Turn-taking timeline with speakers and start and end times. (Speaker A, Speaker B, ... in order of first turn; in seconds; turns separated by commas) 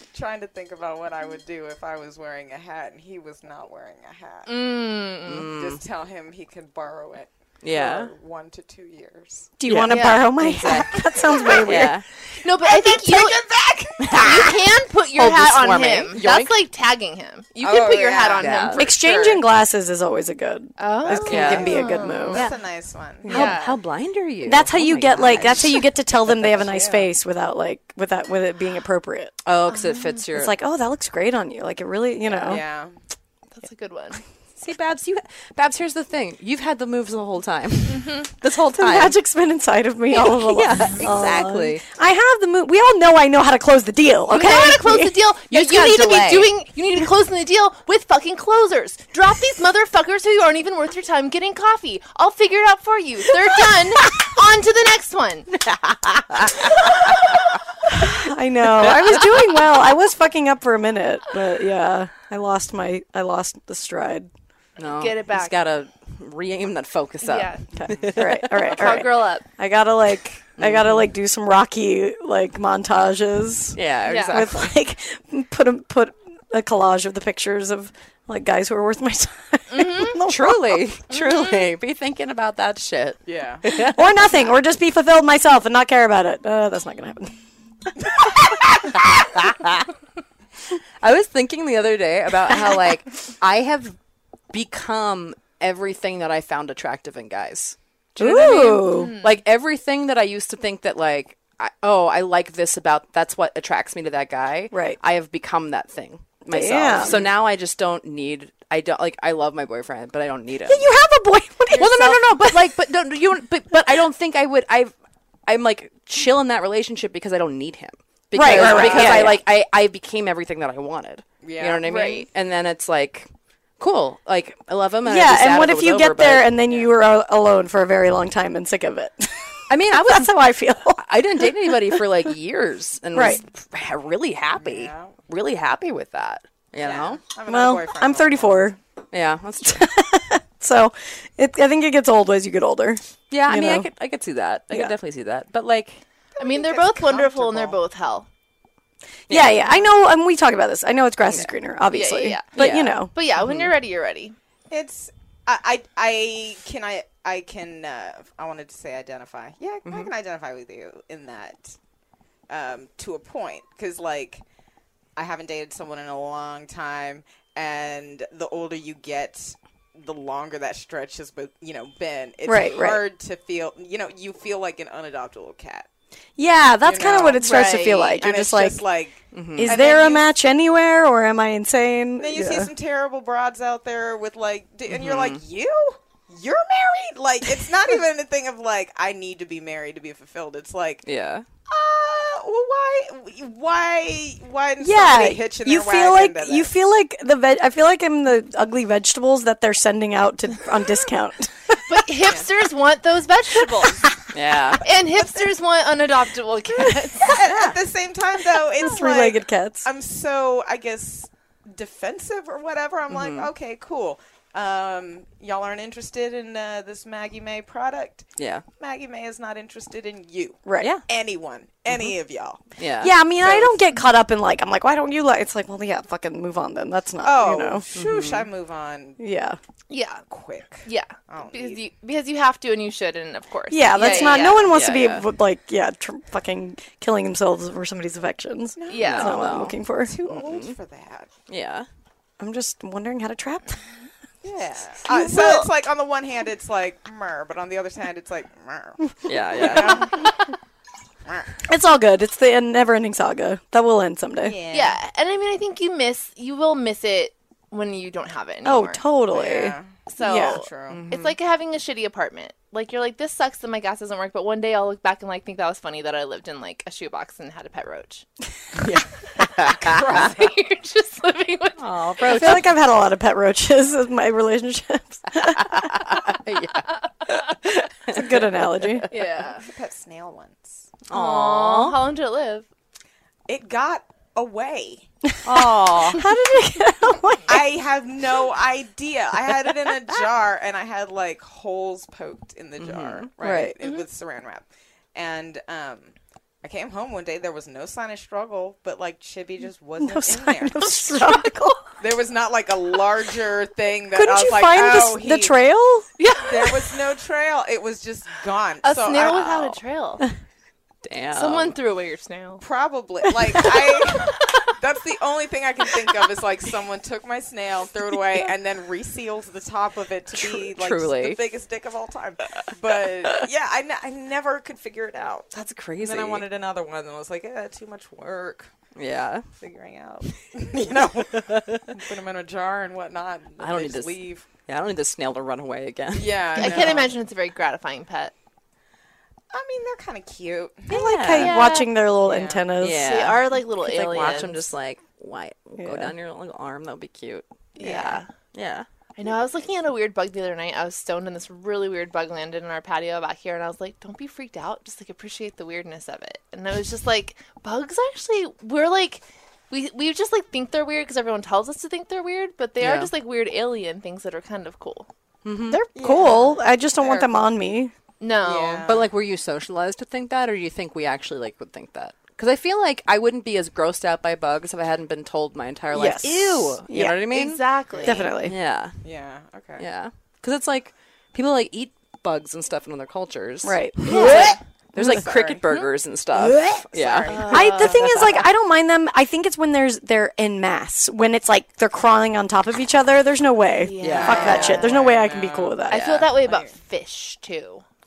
Speaker A: 0.1-4.5, Speaker B: 4.5-5.5, Speaker C: 5.3-5.8, Speaker A: 5.5-9.6, Speaker C: 7.6-8.1, Speaker D: 9.6-12.0, Speaker C: 9.7-11.1, Speaker B: 9.9-10.3, Speaker A: 11.2-11.9, Speaker C: 11.6-12.1, Speaker B: 12.4-13.4, Speaker A: 12.6-14.6, Speaker C: 14.0-14.5, Speaker B: 14.2-19.4, Speaker C: 15.2-16.5, Speaker A: 17.6-18.8, Speaker C: 18.4-18.8, Speaker D: 18.8-22.5, Speaker B: 20.8-22.5, Speaker A: 21.2-23.5, Speaker C: 21.3-21.8, Speaker B: 23.2-23.8, Speaker C: 23.3-25.8, Speaker D: 24.4-29.4, Speaker A: 26.5-27.1, Speaker C: 29.4-30.6, Speaker B: 29.7-30.2, Speaker D: 30.3-32.6, Speaker B: 32.3-32.5, Speaker A: 32.5-33.0, Speaker B: 33.6-34.2, Speaker C: 34.6-39.2, Speaker B: 37.9-38.3, Speaker D: 38.5-45.2, Speaker C: 40.1-41.8, Speaker B: 44.3-55.5, Speaker C: 45.5-46.5, Speaker C: 55.6-56.9, Speaker D: 57.9-64.3, Speaker C: 64.8-68.8, Speaker B: 65.0-65.5, Speaker B: 67.2-67.6, Speaker D: 67.8-73.8, Speaker B: 68.7-69.5, Speaker C: 70.6-71.1, Speaker C: 73.8-74.8, Speaker B: 74.1-74.5, Speaker D: 74.3-80.9, Speaker B: 79.7-80.2, Speaker C: 80.3-84.1, Speaker B: 81.1-81.6, Speaker A: 83.3-83.6, Speaker D: 83.7-87.4, Speaker C: 88.9-89.9, Speaker C: 91.0-94.0, Speaker C: 94.5-110.8, Speaker D: 98.2-99.2, Speaker B: 98.9-99.3, Speaker D: 104.7-105.0, Speaker D: 106.4-107.2, Speaker D: 110.7-112.7, Speaker C: 111.7-114.9, Speaker C: 115.5-126.5, Speaker D: 118.3-119.4, Speaker A: 121.4-121.9, Speaker B: 121.8-122.3, Speaker D: 125.0-132.0, Speaker A: 126.7-127.0, Speaker C: 129.7-130.3, Speaker C: 131.0-137.2, Speaker D: 133.1-133.4, Speaker A: 134.6-135.2, Speaker A: 136.8-138.7, Speaker D: 137.5-138.8, Speaker C: 139.1-139.8, Speaker D: 139.6-143.9, Speaker C: 143.3-146.0, Speaker A: 146.4-147.8, Speaker B: 146.4-148.3, Speaker C: 149.3-149.6, Speaker D: 149.3-153.1, Speaker B: 151.9-154.4, Speaker C: 152.6-153.7, Speaker A: 154.7-161.8, Speaker C: 159.8-160.1, Speaker A: 162.5-164.4, Speaker A: 165.2-175.9, Speaker D: 172.5-173.0, Speaker D: 176.4-178.9, Speaker A: 176.8-177.6, Speaker B: 177.4-178.3, Speaker A: 178.2-180.3, Speaker C: 179.3-179.9, Speaker D: 179.5-182.7, Speaker A: 182.2-191.1, Speaker C: 184.9-185.4, Speaker C: 191.1-191.4, Speaker A: 191.7-196.8, Speaker D: 194.8-202.0, Speaker B: 201.9-204.1, Speaker C: 204.3-204.8, Speaker B: 204.8-207.3, Speaker A: 205.0-205.5, Speaker A: 207.2-218.3, Speaker C: 207.5-207.8, Speaker D: 208.8-209.9, Speaker C: 213.1-213.5, Speaker C: 218.4-218.6, Speaker A: 218.8-222.6, Speaker D: 220.7-221.0, Speaker C: 222.8-223.1, Speaker D: 223.0-227.9, Speaker A: 223.4-223.7, Speaker A: 227.2-229.2, Speaker C: 227.9-228.5, Speaker D: 229.2-229.6, Speaker B: 229.9-230.2, Speaker A: 230.3-231.8, Speaker B: 230.8-234.7, Speaker D: 233.7-240.2, Speaker A: 234.0-234.5, Speaker C: 234.0-235.3, Speaker A: 238.8-241.3, Speaker B: 238.9-239.3, Speaker C: 239.0-240.8, Speaker C: 241.5-241.9, Speaker D: 242.4-243.8, Speaker A: 244.4-249.0, Speaker B: 245.1-245.7, Speaker C: 249.3-250.1, Speaker A: 249.5-250.4, Speaker A: 251.3-251.6, Speaker D: 251.7-254.6, Speaker A: 254.4-255.0, Speaker B: 254.7-259.0, Speaker D: 258.6-260.6, Speaker A: 259.3-261.0, Speaker B: 260.1-268.2, Speaker C: 260.9-261.3, Speaker C: 268.8-270.1, Speaker A: 269.8-270.5, Speaker B: 269.8-272.4, Speaker C: 271.8-272.7, Speaker D: 272.2-276.1, Speaker C: 275.7-279.1, Speaker D: 278.1-279.1, Speaker B: 279.1-279.7, Speaker A: 279.6-280.9, Speaker C: 281.1-282.0, Speaker B: 281.1-282.7, Speaker A: 283.5-285.1, Speaker D: 285.2-287.7, Speaker C: 285.4-286.3, Speaker A: 287.5-301.5, Speaker C: 292.8-293.7, Speaker D: 293.4-293.7, Speaker B: 293.8-294.1, Speaker D: 300.0-301.9, Speaker A: 302.0-305.6, Speaker D: 304.1-306.1, Speaker B: 306.2-306.6, Speaker A: 306.5-309.8, Speaker B: 308.8-310.2, Speaker C: 311.0-311.8, Speaker B: 311.4-312.6, Speaker A: 312.6-325.5, Speaker C: 320.3-321.4, Speaker C: 325.5-326.5, Speaker A: 326.0-328.7, Speaker C: 329.0-329.5, Speaker A: 329.6-334.4, Speaker C: 330.8-331.9, Speaker C: 333.6-337.0, Speaker A: 336.1-337.2, Speaker B: 336.6-338.3, Speaker A: 339.5-341.4, Speaker D: 340.9-343.1, Speaker C: 340.9-341.6, Speaker B: 341.4-341.9, Speaker A: 342.2-342.7, Speaker C: 342.8-347.4, Speaker B: 342.9-344.7, Speaker D: 345.8-346.1, Speaker B: 347.8-348.3, Speaker A: 347.8-348.2, Speaker C: 348.5-348.9, Speaker B: 349.2-365.1, Speaker C: 362.8-363.1, Speaker C: 365.4-365.8, Speaker D: 365.7-367.9, Speaker A: 365.9-367.3, Speaker B: 368.2-368.9, Speaker A: 368.4-369.1, Speaker C: 368.9-377.6, Speaker D: 375.9-377.2, Speaker B: 377.3-378.3, Speaker A: 377.9-378.2, Speaker D: 378.1-378.6, Speaker C: 378.4-379.0, Speaker A: 379.0-379.9, Speaker C: 379.8-388.2, Speaker D: 383.6-385.2, Speaker B: 384.0-384.6, Speaker A: 384.0-385.6, Speaker D: 386.4-386.9, Speaker A: 386.9-388.2, Speaker B: 387.3-388.4, Speaker D: 387.5-396.1, Speaker B: 393.8-395.2, Speaker C: 394.0-394.8, Speaker A: 394.1-395.8, Speaker B: 395.9-397.8, Speaker C: 395.9-396.4, Speaker A: 396.4-396.8